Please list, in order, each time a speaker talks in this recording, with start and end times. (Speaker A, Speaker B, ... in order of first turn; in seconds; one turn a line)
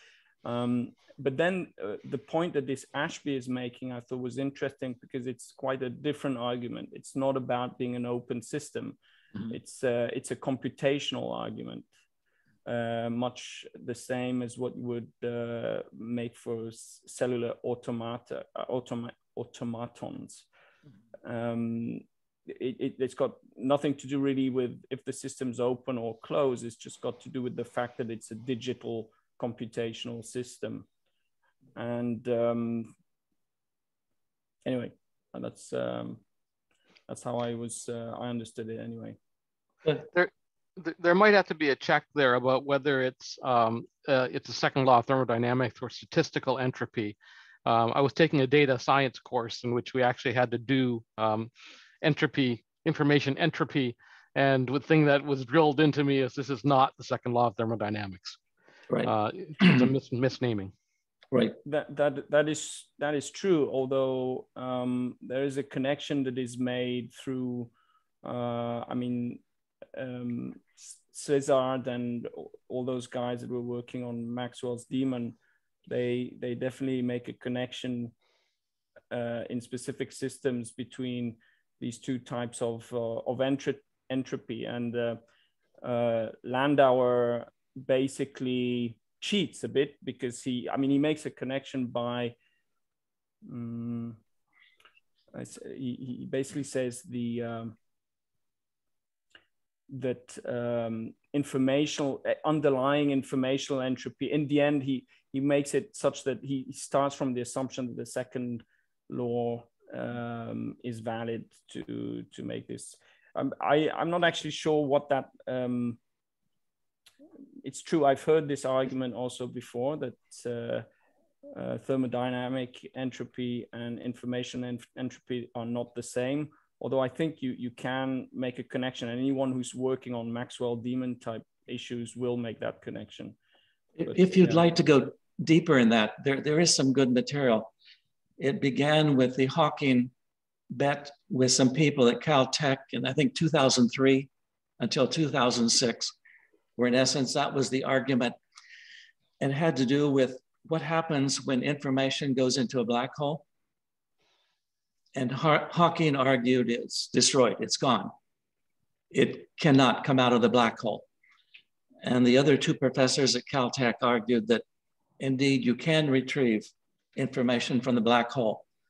Speaker A: 0.4-9.0
Speaker A: 9.5-11.9
Speaker A: 12.7-20.4
Speaker A: 21.2-30.9
Speaker A: 31.8-32.9
Speaker A: 34.6-36.2
Speaker A: 37.1-39.2
Speaker B: 40.1-51.5
Speaker B: 52.0-58.4
Speaker C: 58.9-59.9
Speaker B: 59.0-60.7
Speaker A: 61.6-67.7
Speaker A: 68.2-69.4
Speaker A: 69.9-75.3
Speaker A: 75.9-78.1
Speaker A: 79.1-85.2
Speaker A: 85.8-92.3
Speaker A: 93.4-94.2
Speaker A: 95.3-97.7
Speaker A: 99.9-116.0
Speaker A: 117.6-120.8
Speaker A: 121.5-133.3
Speaker C: 134.0-137.7
Speaker A: 134.1-134.5
Speaker C: 138.4-140.1
Speaker C: 140.7-144.3
Speaker C: 144.8-146.1
Speaker C: 146.8-148.3
Speaker C: 149.4-153.4
Speaker C: 155.1-158.1
Speaker C: 159.1-161.0
Speaker C: 162.0-164.6
Speaker C: 165.2-168.6